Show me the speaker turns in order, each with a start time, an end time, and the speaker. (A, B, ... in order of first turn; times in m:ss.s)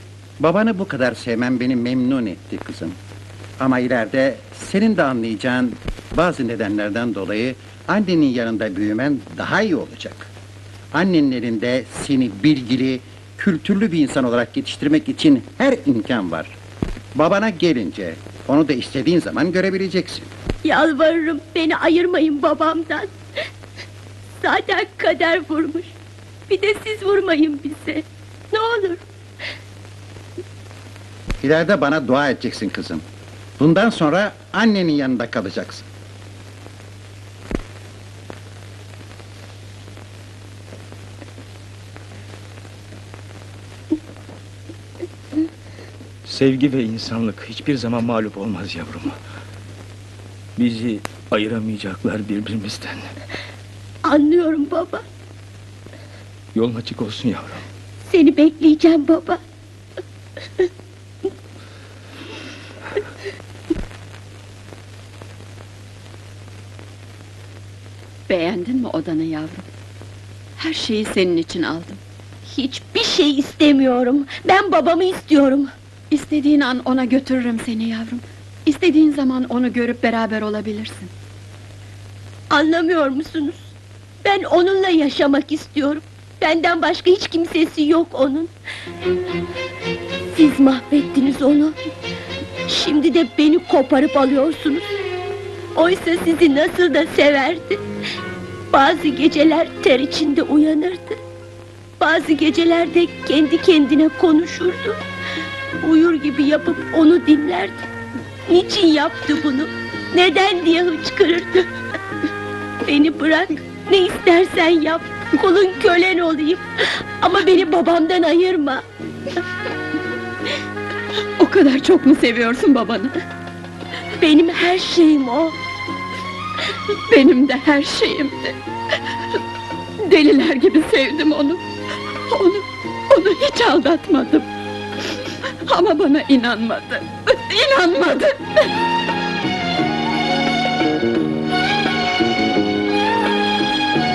0:00.4-0:03.0 A
0:03.6-0:10.3 A
0:10.9-0:16.5 A
0:17.1-0:20.3 A
0:20.6-0:23.1 B
0:24.4-0:25.9 B
0:26.5-0:29.0 B
0:31.4-0:33.0 A
0:33.6-0:35.9 A
0:46.2-0:49.2 C
0:50.6-0:53.1 C
0:54.0-0:55.0 B
0:56.5-0:57.6 C
0:58.1-0:59.4 B
1:08.3-1:09.6 D
1:10.6-1:12.0 D
1:12.5-1:15.7 B
1:16.1-1:21.1 D
1:22.5-1:23.7 B
1:24.2-1:28.5 B
1:30.3-1:31.7 B
1:32.7-1:35.0 B
1:35.7-1:37.8 B
1:38.7-1:41.2 B
1:42.0-1:45.0 B
1:45.8-1:47.8 B
1:48.5-1:51.7 B
1:52.8-1:58.8 B
2:01.4-2:03.1 D
2:04.2-2:05.6 B
2:07.1-2:08.6 D
2:10.0-2:11.6 D
2:12.3-2:14.5 D
2:15.7-2:18.7 D